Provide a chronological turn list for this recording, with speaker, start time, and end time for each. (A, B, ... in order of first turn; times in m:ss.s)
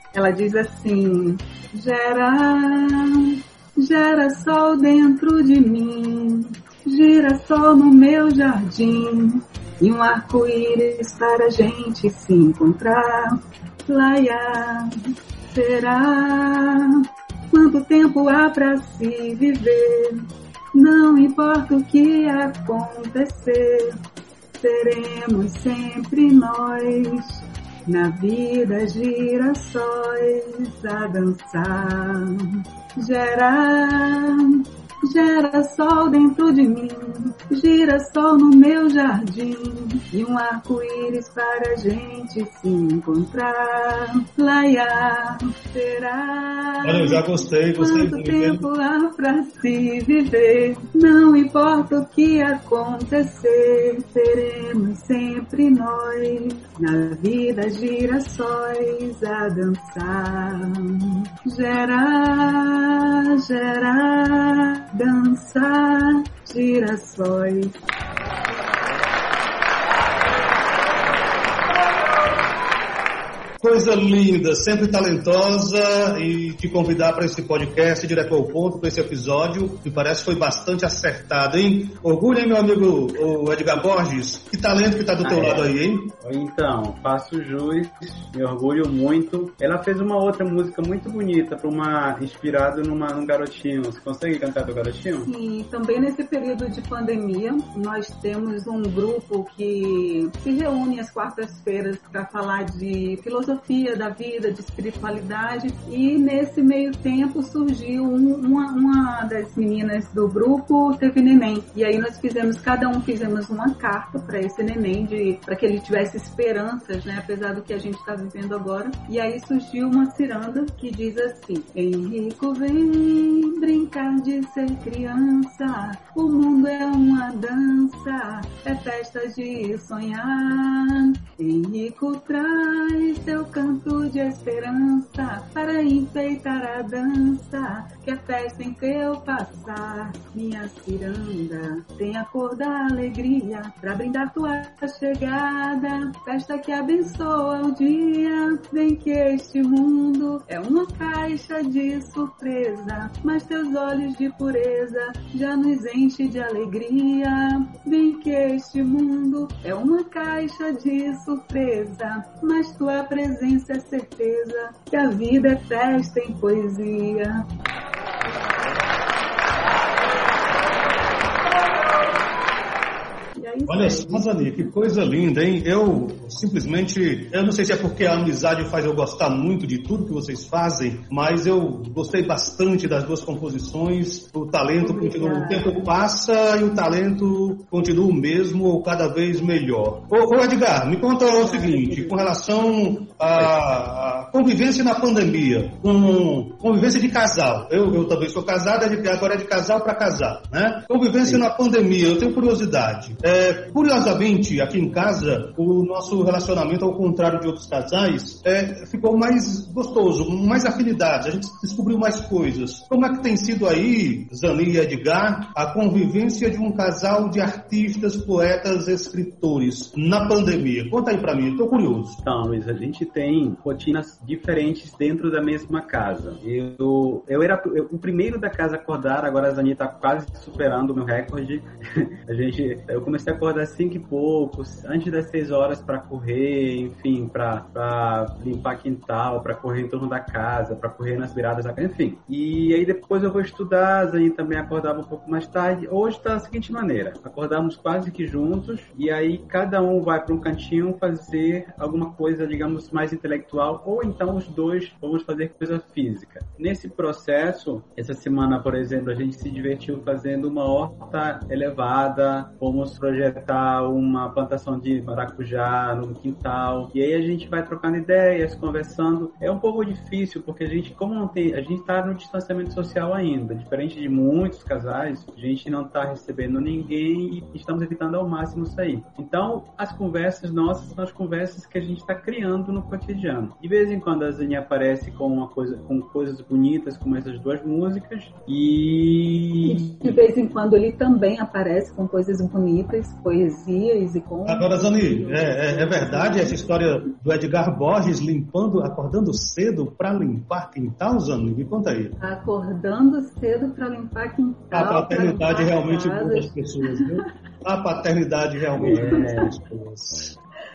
0:00.1-0:24.0 A
0:24.6-0:47.2 A
0:46.8-0:48.6 B
0:47.8-1:07.7 A
1:13.6-1:26.1 B
1:25.2-1:35.3 C
1:35.3-2:47.4 A
2:53.4-2:54.7 A
2:53.7-3:42.2 B
3:04.8-3:05.9 A
3:11.3-3:12.3 A
3:42.2-4:50.2 C
4:49.6-4:56.8 A
4:54.5-5:02.2 B
5:02.2-5:07.2 A
5:04.7-5:10.4 B
5:08.7-5:09.5 C
5:08.8-5:09.5 A